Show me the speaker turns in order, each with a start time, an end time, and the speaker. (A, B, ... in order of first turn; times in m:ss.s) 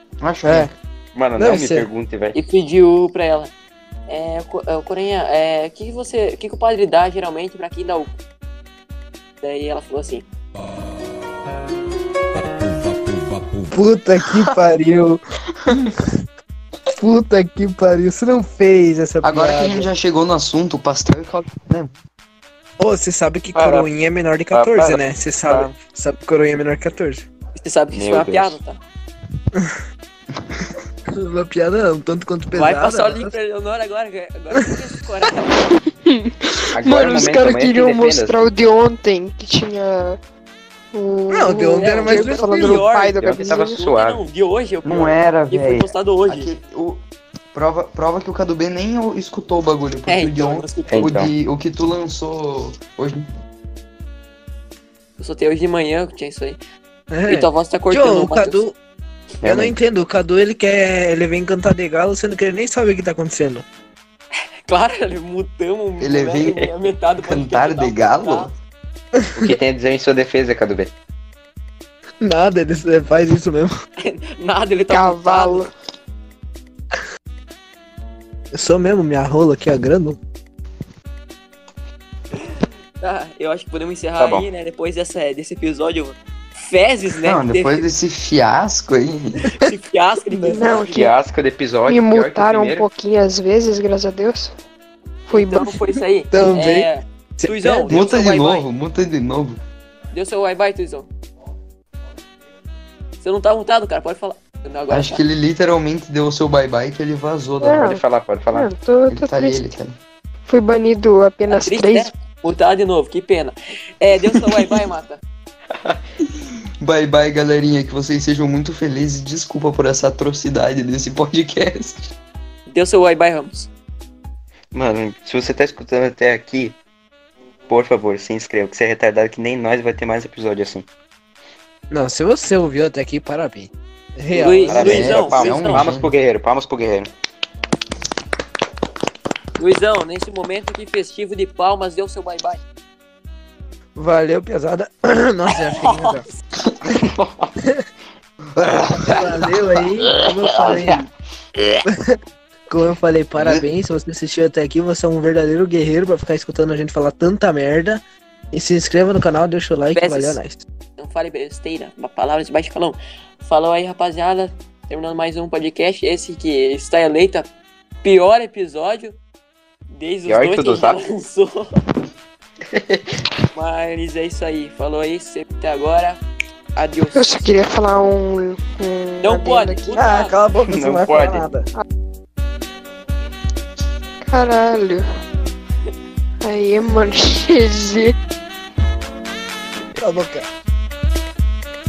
0:00.2-0:00.7 A
0:00.4-0:00.7 B
0:01.1-0:02.4 C
0:01.4-0:01.9 B
0:02.3-0:03.5 D
0:04.1-0:08.2 D
0:09.4-0:10.3 D
0:13.7-0:16.2 B
0:17.0-0:19.9 B
0:19.2-0:22.0 A
0:22.8-0:27.3 B
0:23.6-0:23.9 C
0:24.5-0:25.7 C
0:27.6-0:28.8 D
0:27.9-0:28.6 C
0:29.6-0:29.8 B
0:31.1-0:33.3 B
0:32.5-0:35.6 D
0:35.7-0:40.2 E
0:36.7-0:38.4 C
0:40.9-0:43.8 E
0:41.3-0:42.9 B
0:41.8-0:46.5 D
0:43.2-0:44.2 C
0:44.8-0:47.0 A
0:47.5-0:53.2 A
0:50.1-0:51.1 D
0:50.9-0:51.3 C
0:55.2-0:56.6 D
0:57.1-0:58.8 B
0:57.3-0:58.6 D
0:59.4-0:59.8 C
0:59.4-1:03.6 B
1:04.7-1:08.5 D
1:06.0-1:08.5 A
1:09.2-1:09.5 B
1:09.4-1:10.9 C
1:12.2-1:13.7 B
1:14.0-1:15.7 D
1:14.9-1:15.7 E
1:18.5-1:20.2 B
1:22.4-1:27.9 D
1:24.2-1:24.5 C
1:27.2-1:29.5 A
1:29.6-1:31.1 D
1:30.3-1:30.6 B
1:30.5-1:31.1 E
1:30.8-1:32.9 C
1:31.9-1:34.5 E
1:35.3-1:35.8 E
1:35.3-1:38.7 D
1:36.3-1:37.9 B
1:37.9-1:39.6 A
1:40.1-1:41.1 D
1:43.2-1:45.2 D
1:44.9-1:47.9 A
1:47.6-1:48.0 E
1:47.8-1:48.7 C
1:48.5-1:49.6 E
1:49.1-1:50.0 A
1:50.5-1:52.1 E
1:51.5-1:55.2 D
1:56.8-2:02.1 A
2:02.7-2:03.7 D
2:04.7-2:06.8 C
2:07.7-2:10.9 C
2:11.9-2:15.2 B
2:14.3-2:15.8 D
2:14.7-2:17.1 C
2:14.8-2:16.1 A
2:19.6-2:22.6 D
2:24.0-2:26.3 B
2:25.5-2:26.4 D
2:26.8-2:27.5 C
2:28.6-2:29.5 A
2:29.1-2:31.1 B
2:30.0-2:31.0 C
2:31.6-2:31.8 C
2:31.9-2:32.2 B
2:32.7-2:38.0 B
2:33.4-2:33.6 A
2:38.5-2:40.6 B
2:39.9-2:40.4 D
2:41.0-2:47.5 D
2:48.0-2:49.2 D
2:49.9-2:51.7 D
2:50.3-2:51.0 C
2:52.7-2:53.2 C
2:53.5-2:56.2 D
2:56.8-2:57.5 D
2:57.2-3:00.1 E
2:59.2-3:00.4 D
2:59.9-3:01.7 B
3:00.7-3:01.5 C
3:04.3-3:05.0 E
3:06.4-3:08.1 E
3:10.0-3:10.5 B